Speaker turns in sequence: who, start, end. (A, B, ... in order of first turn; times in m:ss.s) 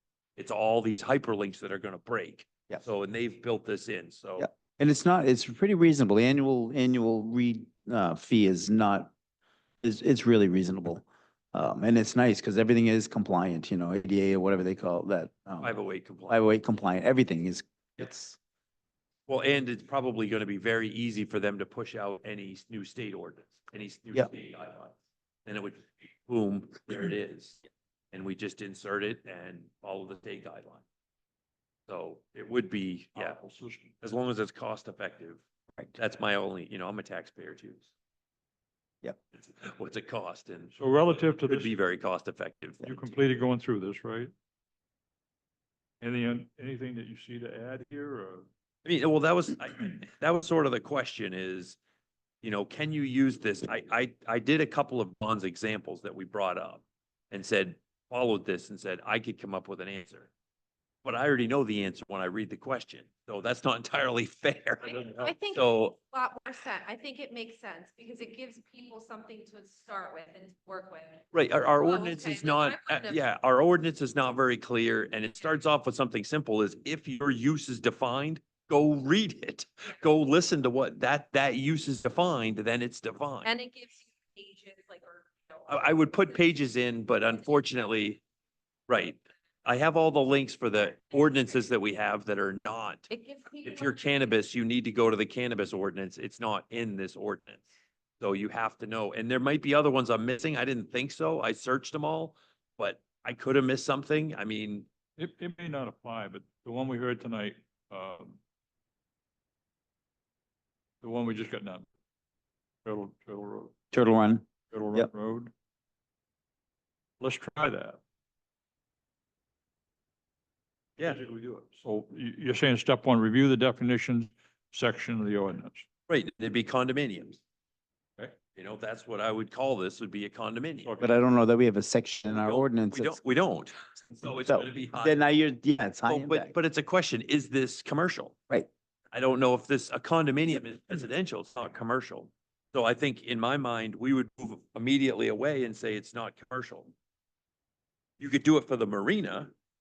0:00.4-0:04.5 A
0:04.4-0:09.1 B
0:09.8-0:18.4 B
0:15.6-0:16.4 A
0:19.3-0:30.8 A
0:31.9-0:33.4 A
0:33.1-0:33.9 C
0:34.0-0:35.4 A
0:35.9-0:37.9 A
0:39.3-0:42.9 A
0:40.7-0:41.8 C
0:42.8-0:44.3 C
0:46.0-0:48.5 C
0:48.8-0:51.8 A
0:52.4-1:00.3 A
1:01.0-1:06.0 A
1:04.8-1:13.2 D
1:05.0-1:05.3 C
1:11.3-1:23.5 A
1:23.4-1:26.4 D
1:25.7-1:28.2 A
1:28.9-1:33.1 A
1:33.1-1:34.4 D
1:33.6-1:37.7 A
1:38.2-1:44.9 A
1:45.2-1:48.4 C
1:51.0-1:51.8 C
1:52.8-1:53.7 C
1:53.9-1:55.1 B
1:54.7-1:55.5 C
1:57.2-1:58.0 C
2:01.0-2:01.2 A
2:01.0-2:05.8 C
2:06.1-2:07.4 A
2:08.3-2:11.0 A
2:10.8-2:11.1 C
2:11.0-2:13.2 B
2:12.3-2:15.2 A
2:14.5-2:16.5 B
2:16.1-2:18.3 A
2:19.1-2:26.9 A
2:28.2-2:29.5 A